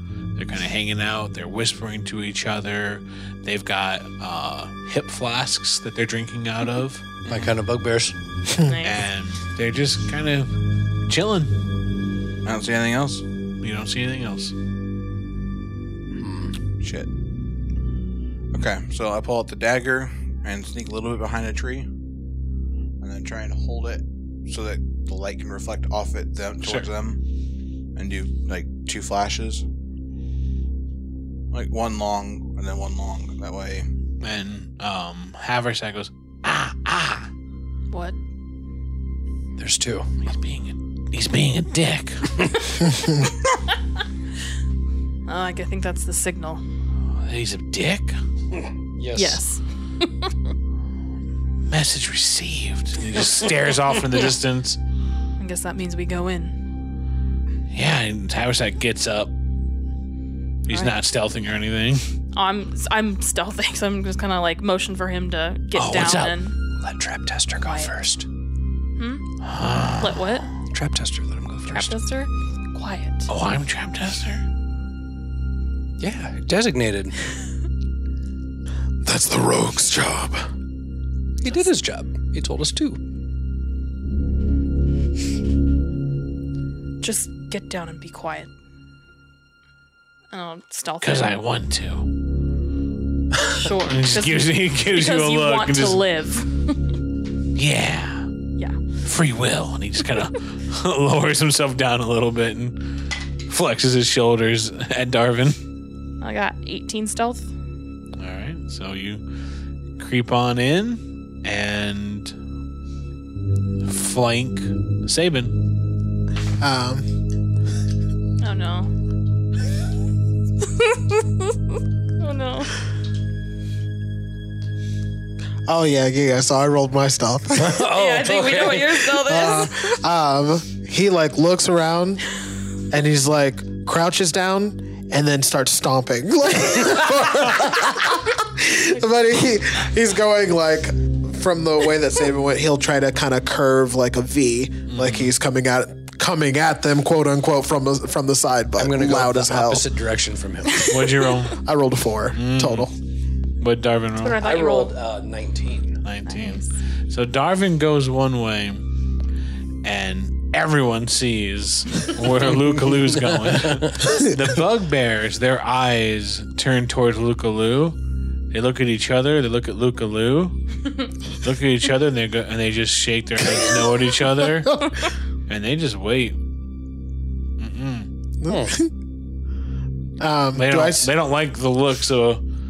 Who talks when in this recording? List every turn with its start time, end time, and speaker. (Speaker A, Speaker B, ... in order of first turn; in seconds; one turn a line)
Speaker A: 0.4-7.0
Speaker B: 7.2-7.5
Speaker C: 7.3-8.2
Speaker D: 8.6-9.0
Speaker A: 8.8-10.5
Speaker A: 11.1-11.5
Speaker B: 12.4-13.2
Speaker A: 13.6-14.5
Speaker C: 16.1-16.5
Speaker B: 16.8-17.1
Speaker B: 18.5-21.9
Speaker B: 23.0-27.2
Speaker A: 26.6-26.9
Speaker B: 27.9-29.6
Speaker B: 31.5-33.9
Speaker A: 34.2-37.3
Speaker D: 37.9-38.1
Speaker C: 39.6-40.1
Speaker A: 40.2-42.4
Speaker D: 45.3-46.6
Speaker A: 47.1-48.2
Speaker C: 48.5-49.4
Speaker D: 49.1-50.3
Speaker A: 51.7-54.8
Speaker D: 55.4-56.6
Speaker A: 57.7-59.3
Speaker A: 60.6-62.0
Speaker D: 60.7-60.9
Speaker D: 62.3-66.5
Speaker A: 65.7-66.4
Speaker C: 66.8-68.2
Speaker D: 67.6-67.9
Speaker D: 69.0-69.2
Speaker A: 69.4-70.2
Speaker D: 70.0-70.5
Speaker C: 70.7-71.9
Speaker D: 71.7-73.3
Speaker A: 73.3-74.4
Speaker C: 76.0-77.1
Speaker E: 79.0-80.4
Speaker C: 81.4-83.0
Speaker D: 87.0-88.5
Speaker D: 90.3-91.3
Speaker A: 91.0-92.1
Speaker D: 93.4-96.8
Speaker A: 93.8-96.0
Speaker A: 97.5-98.3
Speaker A: 99.0-102.9
Speaker A: 103.5-105.6
Speaker D: 106.2-107.5
Speaker A: 108.2-109.2
Speaker A: 110.0-112.3
Speaker A: 113.8-115.5
Speaker E: 116.6-117.1
Speaker D: 118.4-118.9
Speaker D: 120.6-122.7
Speaker E: 125.7-127.9
Speaker C: 127.5-129.2
Speaker D: 127.8-130.0
Speaker E: 129.2-132.2
Speaker E: 132.9-149.8
Speaker A: 144.9-145.3
Speaker C: 148.8-151.0
Speaker A: 150.8-151.6
Speaker E: 151.5-152.9
Speaker A: 152.3-152.9
Speaker A: 153.6-154.4
Speaker D: 154.2-154.9
Speaker C: 154.4-156.0
Speaker A: 156.0-158.8
Speaker D: 156.3-156.7
Speaker A: 159.8-168.0
Speaker C: 162.4-164.1
Speaker A: 168.5-170.6
Speaker A: 171.4-174.9
Speaker A: 175.5-176.4
Speaker A: 177.6-178.1
Speaker E: 178.4-178.9
Speaker C: 178.5-178.8
Speaker E: 180.2-181.1
Speaker A: 180.5-182.4